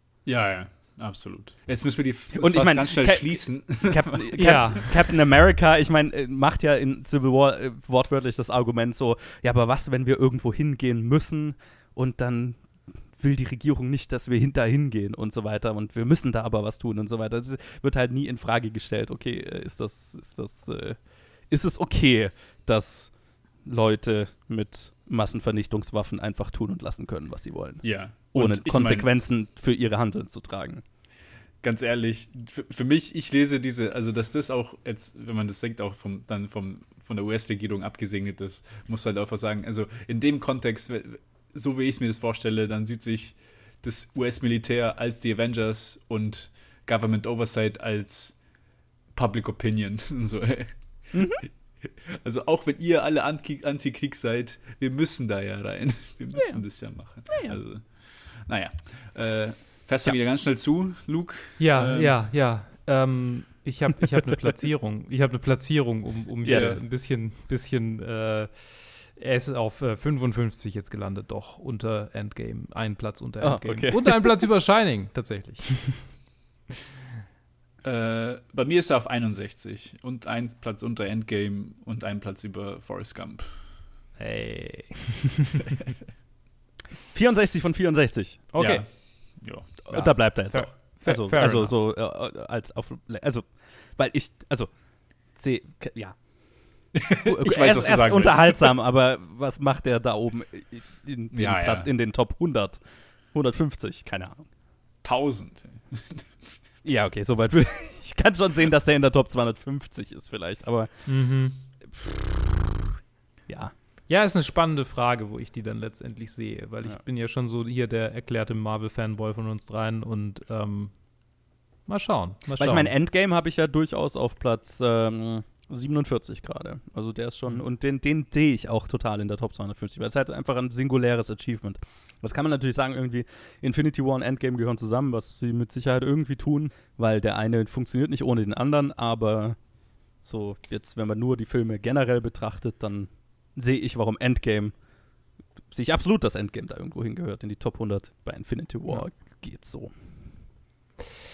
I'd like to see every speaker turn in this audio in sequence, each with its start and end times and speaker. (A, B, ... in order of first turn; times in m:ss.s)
0:00.2-0:05.1 A
0:02.3-0:30.8 B
0:04.4-0:04.8 C
0:27.8-0:29.1 A
0:31.6-0:48.4 A
0:49.1-1:02.2 A
0:51.1-0:51.4 B
0:56.4-0:56.6 B
0:57.3-0:57.6 B
1:01.6-1:16.2 C
1:06.4-1:06.8 B
1:06.5-1:06.8 A
1:13.4-1:14.4 B
1:17.8-1:23.7 A
1:24.2-1:25.3 C
1:27.1-1:28.5 B
1:28.5-1:31.8 C
1:28.6-1:30.1 A
1:29.9-1:36.3 B
1:36.8-1:42.8 B
1:37.0-1:38.8 A
1:41.3-1:41.9 A
1:43.3-1:44.4 B
1:45.0-1:46.4 A
1:46.8-1:51.1 B
1:51.0-1:51.6 C
1:53.5-1:53.7 B
1:54.1-2:01.1 C
2:01.8-2:02.9 C
2:02.6-2:19.6 B
2:20.2-2:24.8 B
2:25.7-2:29.9 B